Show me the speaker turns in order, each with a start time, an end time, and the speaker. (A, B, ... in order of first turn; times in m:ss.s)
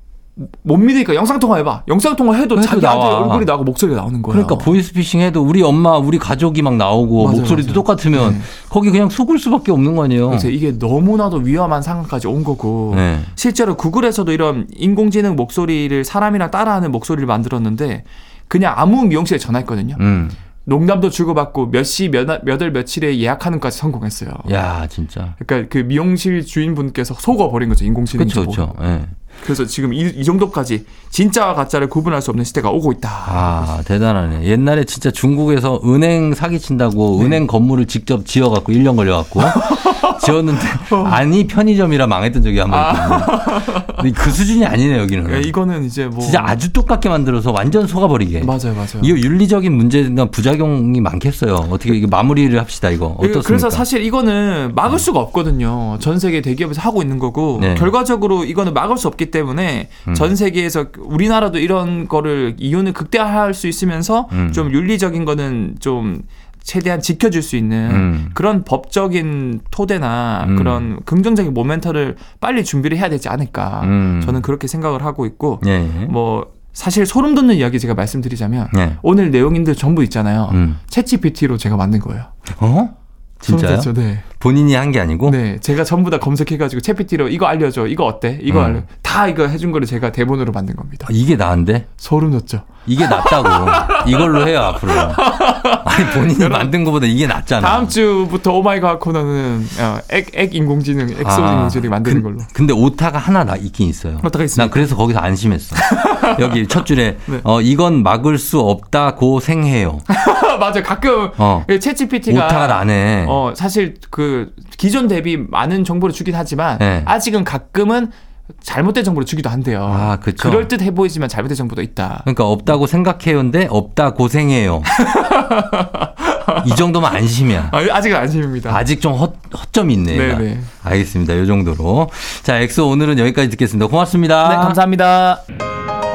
0:00.4-0:04.8 A
0:02.6-0:03.5 B
0:04.3-0:10.5 B
0:07.2-0:08.5 A
0:10.3-0:20.0 A
0:12.9-0:13.3 B
0:20.0-0:20.4 B
0:20.6-0:24.7 A
0:24.4-0:25.4 B
0:25.4-0:28.8 A
0:28.2-0:29.1 B
0:29.4-0:33.7 A
0:33.2-0:45.5 B
0:37.2-0:37.4 A
0:39.4-0:41.2 A
0:42.7-0:44.1 A
0:45.2-0:46.6 A
0:46.2-0:53.8 B
0:48.4-0:49.2 A
0:53.2-1:22.3 A
0:57.6-0:57.9 B
1:00.1-1:00.3 B
1:04.3-1:04.6 B
1:07.9-1:08.4 B
1:10.4-1:10.9 B
1:13.8-1:14.4 B
1:15.6-1:16.1 B
1:18.7-1:19.0 B
1:20.5-1:20.8 B
1:22.6-1:25.4 B
1:23.5-1:24.3 A
1:25.2-1:31.1 A
1:28.5-1:28.8 B
1:31.1-1:31.9 B
1:32.0-1:36.7 A
1:32.9-1:37.9 B
1:37.4-1:42.5 A
1:41.2-1:50.0 B
1:44.2-1:44.9 A
1:45.8-1:47.4 A
1:50.1-2:02.3 A
1:51.4-1:51.7 B
1:52.3-1:53.4 B
1:56.8-1:57.1 B
1:59.9-2:00.7 B
2:02.3-2:04.9 B
2:04.9-2:06.8 A
2:06.6-2:07.8 B
2:07.7-2:08.8 A
2:08.7-2:14.8 B
2:10.1-2:10.7 A
2:14.4-2:15.4 A